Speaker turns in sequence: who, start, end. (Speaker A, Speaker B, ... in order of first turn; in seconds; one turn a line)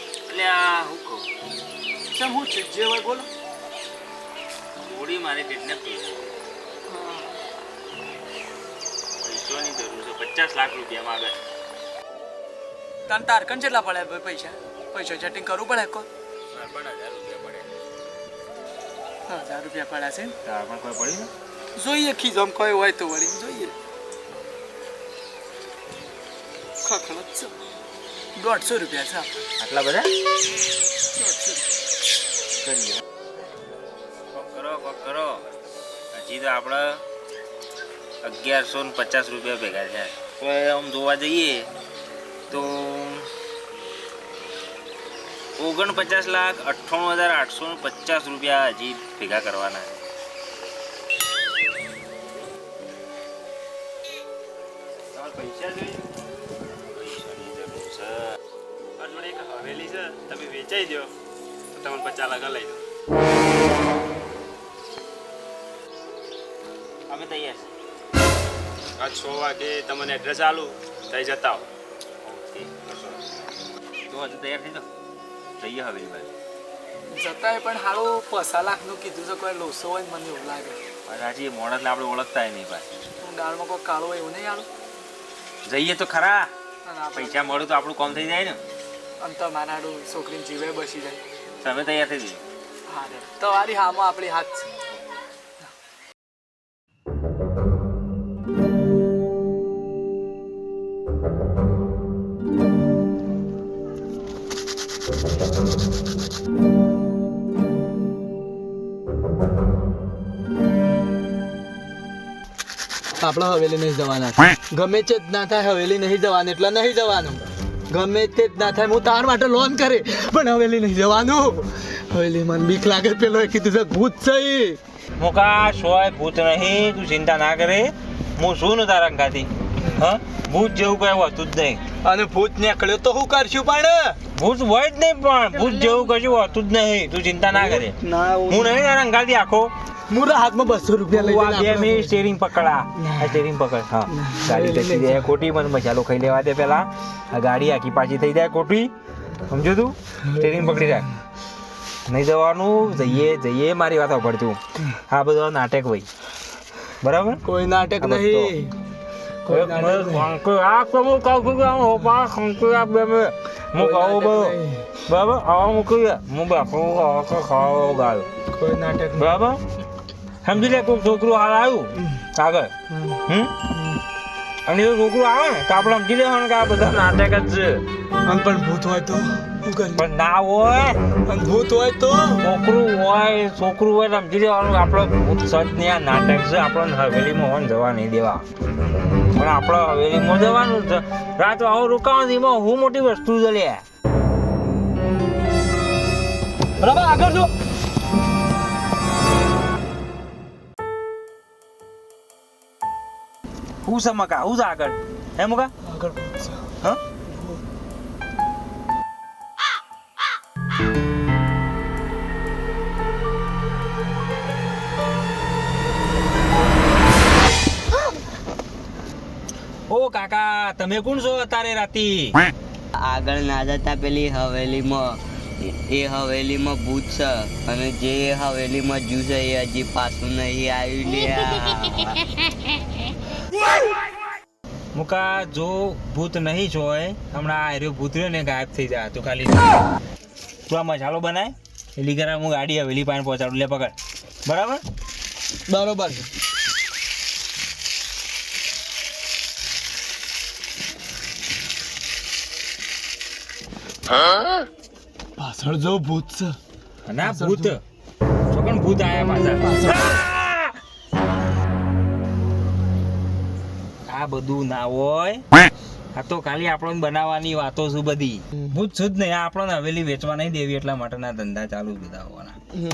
Speaker A: 0.3-1.3
Speaker B: 2.1-3.3
Speaker A: 4.8-6.4
Speaker B: 6.9-7.4
Speaker A: 9.2-11.4
Speaker B: 13.1-16.1
Speaker A: 16.5-17.7
Speaker B: 19.3-20.4
Speaker A: 20.4-21.3
Speaker B: 21.7-23.8
Speaker B: 26.8-27.6
Speaker B: 28.4-29.4
Speaker A: 29.6-30.1
Speaker B: 31.1-31.7
Speaker A: 32.6-33.0
Speaker A: 34.3-35.5
Speaker A: 36.1-37.0
Speaker A: 38.2-41.7
Speaker A: 42.5-43.3
Speaker A: 45.6-50.0
Speaker A: 55.1-56.1
Speaker A: 56.9-58.3
Speaker C: 59.0-60.2
Speaker A: 59.9-61.0
Speaker C: 61.8-62.8
Speaker A: 67.1-67.7
Speaker C: 69.0-71.7
Speaker A: 72.2-73.2
Speaker A: 74.1-74.9
Speaker A: 75.6-76.3
Speaker B: 77.1-80.8
Speaker A: 81.1-82.9
Speaker B: 83.2-84.7
Speaker A: 85.7-86.5
Speaker B: 86.8-87.7
Speaker A: 87.2-88.6
Speaker B: 89.2-91.2
Speaker A: 91.6-92.4
Speaker B: 92.9-94.7
Speaker B: 113.2-124.8
Speaker A: 125.2-131.8
Speaker B: 132.0-134.2
Speaker A: 134.3-139.7
Speaker B: 135.6-136.3
Speaker B: 137.5-138.8
Speaker B: 140.1-142.2
Speaker A: 141.1-148.9
Speaker B: 143.0-143.4
Speaker B: 144.1-145.3
Speaker A: 149.5-151.1
Speaker A: 152.1-156.1
Speaker A: 157.0-157.4
Speaker B: 157.4-158.7
Speaker A: 158.0-158.5
Speaker B: 159.4-160.3
Speaker A: 159.5-168.3
Speaker B: 163.8-164.9
Speaker B: 168.5-169.4
Speaker A: 169.2-169.6
Speaker A: 170.4-172.7
Speaker B: 172.9-173.2
Speaker A: 173.3-173.5
Speaker B: 173.7-174.0
Speaker A: 174.7-177.8
Speaker B: 178.2-180.1
Speaker A: 179.9-181.0
Speaker B: 181.2-182.5
Speaker A: 182.4-188.4
Speaker A: 189.3-193.8
Speaker A: 196.8-197.5
Speaker A: 203.8-205.7
Speaker B: 205.8-206.7
Speaker B: 207.3-207.6
Speaker A: 219.9-222.4
Speaker D: 223.0-232.4
Speaker A: 234.9-239.7
Speaker A: 240.7-244.8
Speaker B: 245.7-246.3
Speaker B: 255.4-256.6
Speaker A: 257.1-257.8
Speaker B: 257.3-257.7
Speaker A: 258.5-260.7
Speaker A: 264.1-265.4
Speaker A: 266.1-272.6